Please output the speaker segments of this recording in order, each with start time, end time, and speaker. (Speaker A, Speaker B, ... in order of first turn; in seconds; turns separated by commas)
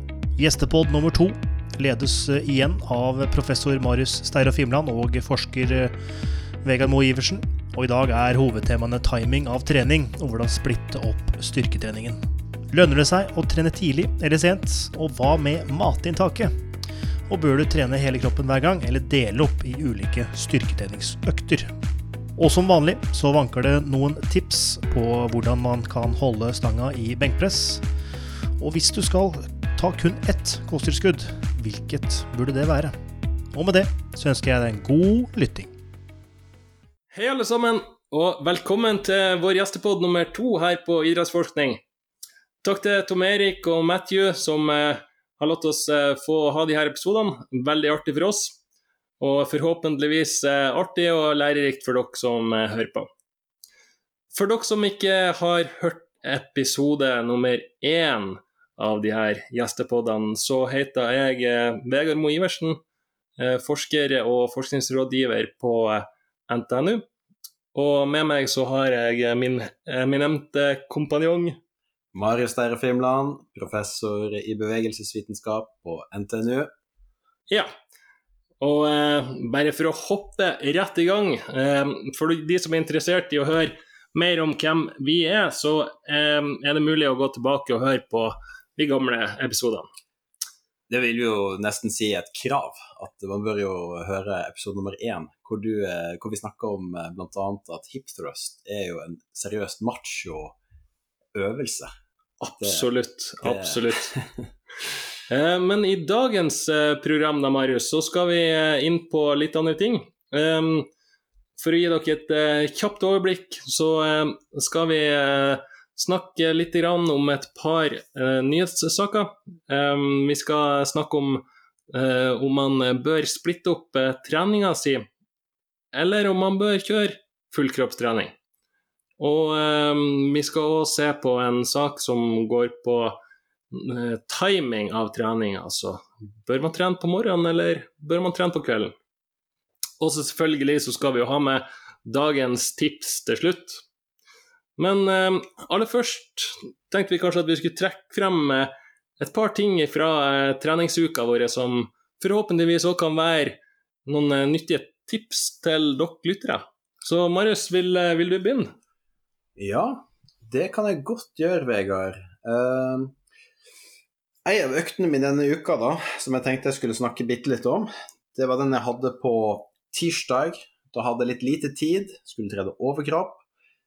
Speaker A: 0.3-5.9, Speaker A: 6.6-16.5, Speaker A: 17.3-21.7, Speaker A: 22.4-27.8, Speaker A: 28.6-32.9, Speaker A: 33.5-35.7, Speaker B: 37.1-41.8, Speaker B: 42.6-48.6, Speaker B: 49.2-53.1, Speaker B: 54.3-62.8, Speaker B: 63.4-67.0, Speaker B: 67.7-71.6, Speaker C: 72.1-76.7, Speaker B: 78.6-89.9, Speaker C: 90.9-100.5, Speaker C: 101.3-101.9, Speaker B: 102.4-104.1, Speaker C: 102.6-102.9, Speaker C: 103.4-104.4, Speaker B: 105.3-110.9, Speaker B: 111.6-125.1, Speaker B: 125.9-128.3, Speaker B: 129.2-133.2, Speaker B: 133.7-138.9, Speaker B: 140.0-143.8, Speaker B: 144.8-158.7, Speaker C: 159.6-163.2, Speaker C: 164.4-173.4